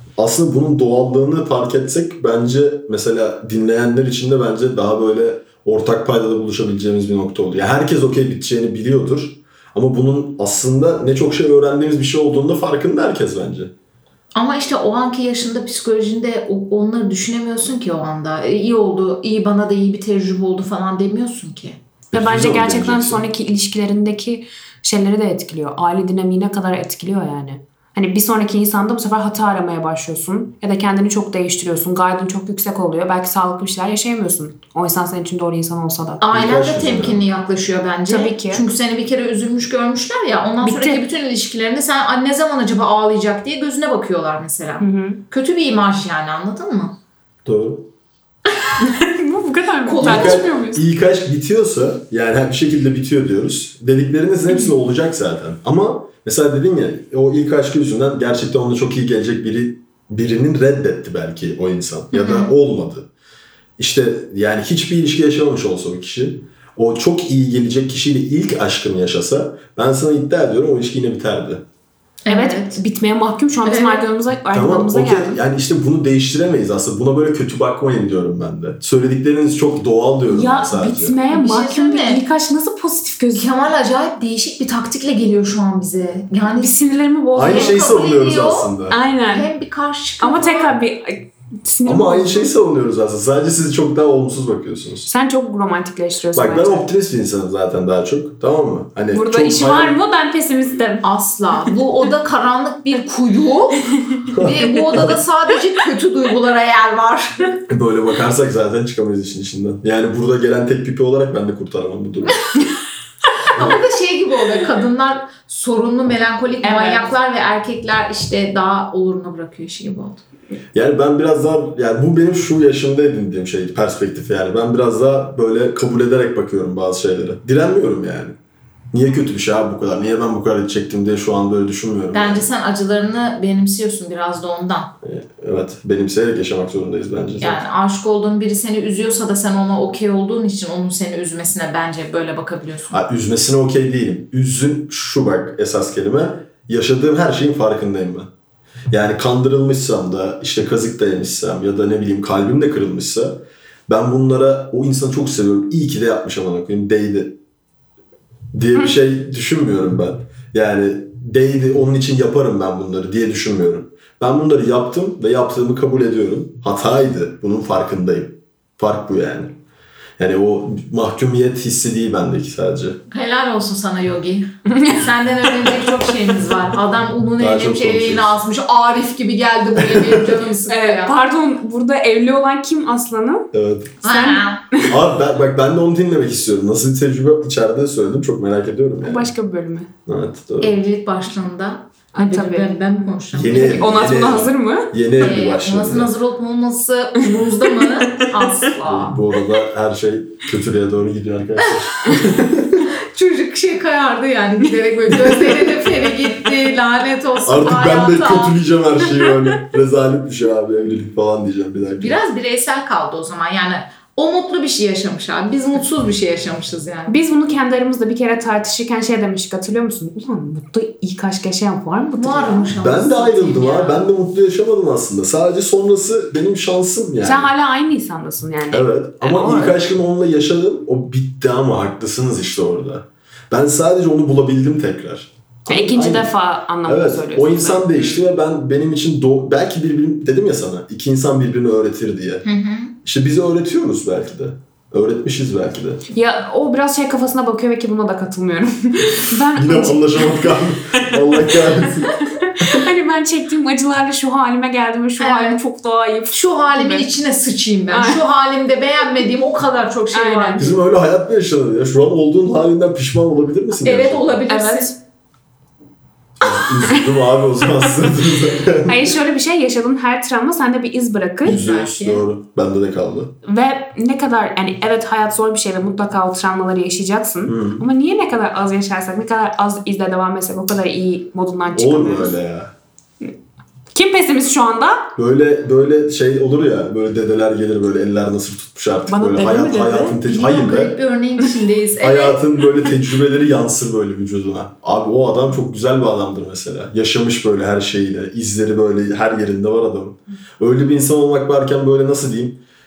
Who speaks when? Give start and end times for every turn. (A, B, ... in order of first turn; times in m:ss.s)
0:00.2-0:13.7 A
0:14.3-0:21.8 B
0:22.1-0:23.2 A
0:22.1-0:36.2 C
0:36.2-0:47.0 B
0:36.3-0:37.2 A
0:38.1-0:38.6 C
0:40.6-0:41.0 C
0:44.8-0:45.2 C
0:47.4-0:47.9 A
0:48.8-0:50.8 C
0:49.8-0:50.5 B
0:50.0-1:03.1 A
1:02.1-1:02.5 B
1:03.8-1:11.6 A
1:12.2-1:12.8 B
1:12.3-1:15.4 C
1:13.6-1:14.0 B
1:14.5-1:21.1 A
1:20.3-1:23.5 C
1:21.3-1:22.2 B
1:23.4-1:26.7 B
1:26.5-1:27.8 C
1:27.3-1:29.0 A
1:27.4-1:30.7 B
1:28.9-1:29.5 C
1:30.2-1:32.5 C
1:31.8-1:35.1 A
1:35.1-1:36.8 C
1:36.3-1:40.0 A
1:39.1-1:41.0 C
1:41.0-1:47.6 B
1:44.3-1:45.2 A
1:47.7-1:52.4 A
1:53.4-2:00.2 B
1:56.6-1:57.1 C
2:00.7-2:08.4 A
2:08.9-2:12.4 A
2:12.1-2:14.9 B
2:15.0-2:17.6 A
2:17.4-2:23.0 B
2:22.9-2:28.3 A
2:28.9-2:37.4 A
2:38.5-2:49.6 A
2:50.2-2:53.0 A
2:53.1-3:01.1 B
2:54.7-2:55.0 C
2:57.4-2:58.4 A
2:59.8-3:00.4 A
3:00.7-3:03.5 C
3:03.5-3:04.0 A
3:04.0-3:04.6 B
3:04.0-3:05.0 C
3:04.8-3:09.3 A
3:09.0-3:09.9 C
3:10.0-3:10.7 A
3:10.6-3:14.0 B
3:12.1-3:12.8 C
3:13.3-3:16.1 A
3:13.5-3:14.9 C
3:15.2-3:19.2 B
3:17.6-3:18.4 C
3:18.8-3:22.9 A
3:23.0-3:28.6 B
3:27.4-3:32.2 A
3:32.0-3:37.2 B
3:37.1-3:42.7 C
3:42.2-3:44.0 B
3:42.7-3:47.5 A
3:47.2-3:49.8 C
3:48.7-3:56.3 A
3:55.7-3:58.2 C
3:56.8-4:02.4 A
4:02.4-4:02.9 B
4:03.0-4:06.0 A
4:06.1-4:17.1 C
4:09.6-4:12.9 A
4:15.2-4:15.6 B
4:16.3-4:20.6 B
4:17.9-4:18.2 C
4:20.1-4:20.8 C
4:20.6-4:24.4 A
4:23.8-4:24.9 B
4:24.5-4:25.0 C
4:26.4-4:29.1 A
4:28.8-4:31.6 C
4:31.4-4:33.4 A
4:31.4-4:32.2 B
4:33.4-4:42.3 C
4:37.4-4:37.9 A
4:41.7-4:42.7 A
4:43.9-4:45.1 C
4:45.2-4:51.0 A
4:49.1-4:50.2 C
4:50.2-4:52.4 B
4:52.0-5:02.6 A